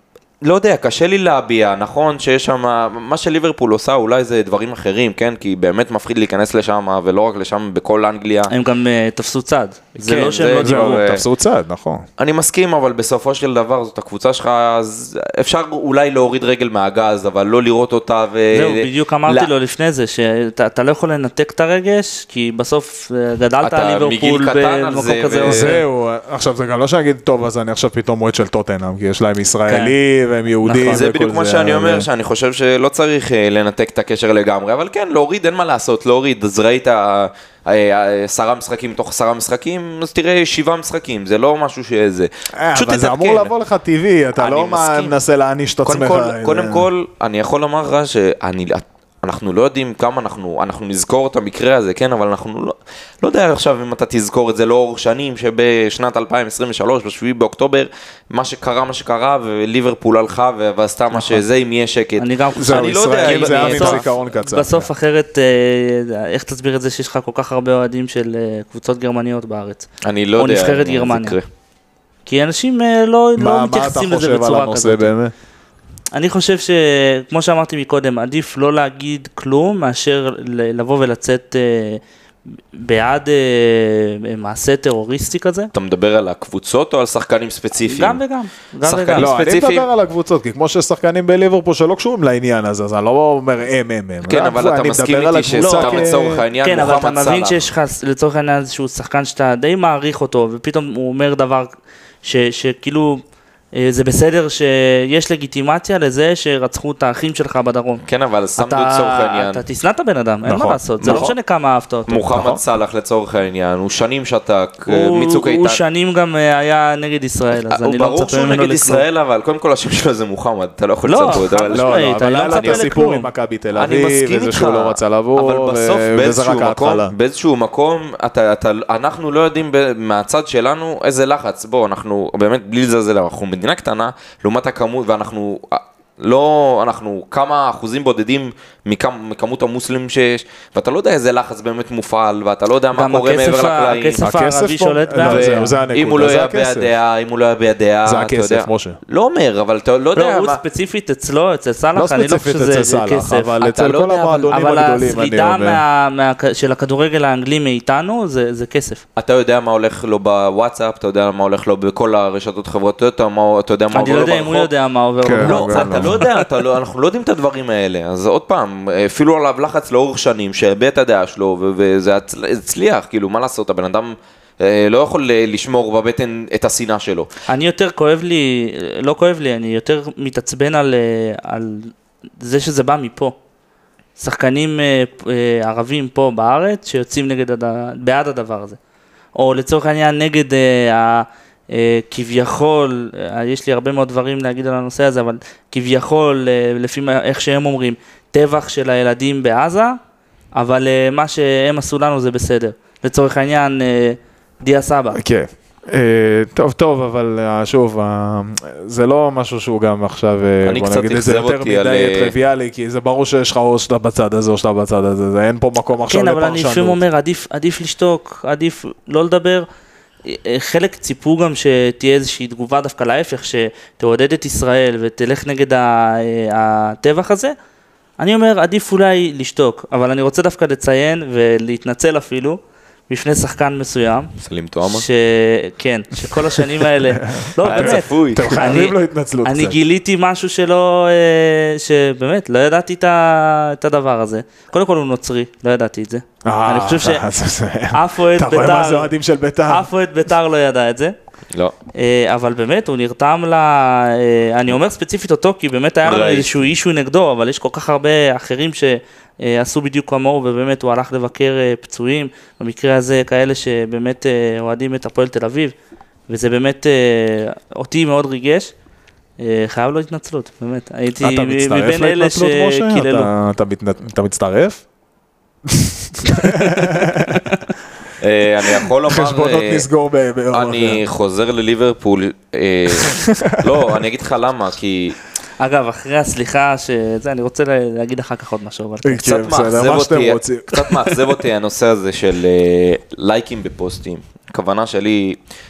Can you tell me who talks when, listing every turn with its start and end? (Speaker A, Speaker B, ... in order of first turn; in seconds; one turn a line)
Speaker A: 0.4-8.5
Speaker B: 8.5-11.1
Speaker A: 10.0-11.2
Speaker C: 10.6-12.1
Speaker A: 12.2-19.5
Speaker B: 18.5-25.8
Speaker A: 23.6-25.7
Speaker C: 25.4-32.1
Speaker B: 29.7-29.9
Speaker B: 30.7-31.0
Speaker A: 30.8-43.5
Speaker C: 42.6-46.9
Speaker A: 44.4-45.1
Speaker A: 45.9-64.0
Speaker C: 61.1-61.4
Speaker B: 62.2-71.4
Speaker C: 62.6-64.9
Speaker A: 70.0-71.5
Speaker B: 72.3-75.1
Speaker C: 73.4-75.3
Speaker B: 76.1-82.0
Speaker B: 82.7-85.7
Speaker A: 85.7-88.2
Speaker B: 87.9-89.3
Speaker A: 88.8-89.9
Speaker C: 89.2-96.4
Speaker A: 94.2-97.7
Speaker B: 95.6-101.7
Speaker B: 102.2-103.2
Speaker B: 103.7-108.0
Speaker A: 108.0-109.6
Speaker B: 108.6-112.2
Speaker C: 110.5-110.8
Speaker A: 111.0-111.3
Speaker A: 112.1-115.8
Speaker C: 112.3-112.6
Speaker B: 114.9-119.0
Speaker A: 117.5-122.9
Speaker B: 121.0-123.3
Speaker C: 121.7-127.1
Speaker A: 123.8-144.2
Speaker B: 142.9-145.8
Speaker C: 144.2-146.9
Speaker A: 145.2-150.6
Speaker C: 148.1-149.0
Speaker B: 150.2-153.6
Speaker C: 151.9-155.8
Speaker A: 153.6-154.5
Speaker B: 154.4-159.0
Speaker A: 159.2-164.7
Speaker B: 163.9-166.3
Speaker C: 165.2-166.3
Speaker A: 165.4-177.3
Speaker B: 177.5-183.3
Speaker B: 184.2-188.8
Speaker B: 189.4-200.0
Speaker B: 200.6-205.2
Speaker C: 205.1-217.0
Speaker A: 210.6-212.3
Speaker B: 216.1-219.7
Speaker B: 220.3-227.5
Speaker B: 228.2-234.3
Speaker A: 234.4-235.1
Speaker B: 234.9-247.2
Speaker C: 236.9-239.8
Speaker A: 237.6-238.6
Speaker C: 246.4-249.9
Speaker B: 247.9-249.1
Speaker B: 249.7-251.1
Speaker B: 251.9-265.7
Speaker A: 256.0-256.6
Speaker B: 266.3-268.7
Speaker B: 269.4-273.3
Speaker C: 271.2-274.8
Speaker C: 275.7-277.6
Speaker A: 278.2-279.9
Speaker C: 278.8-281.0
Speaker A: 280.5-285.2
Speaker C: 282.9-283.6
Speaker B: 285.6-289.2
Speaker C: 289.0-291.1
Speaker A: 289.2-295.4
Speaker B: 290.9-291.2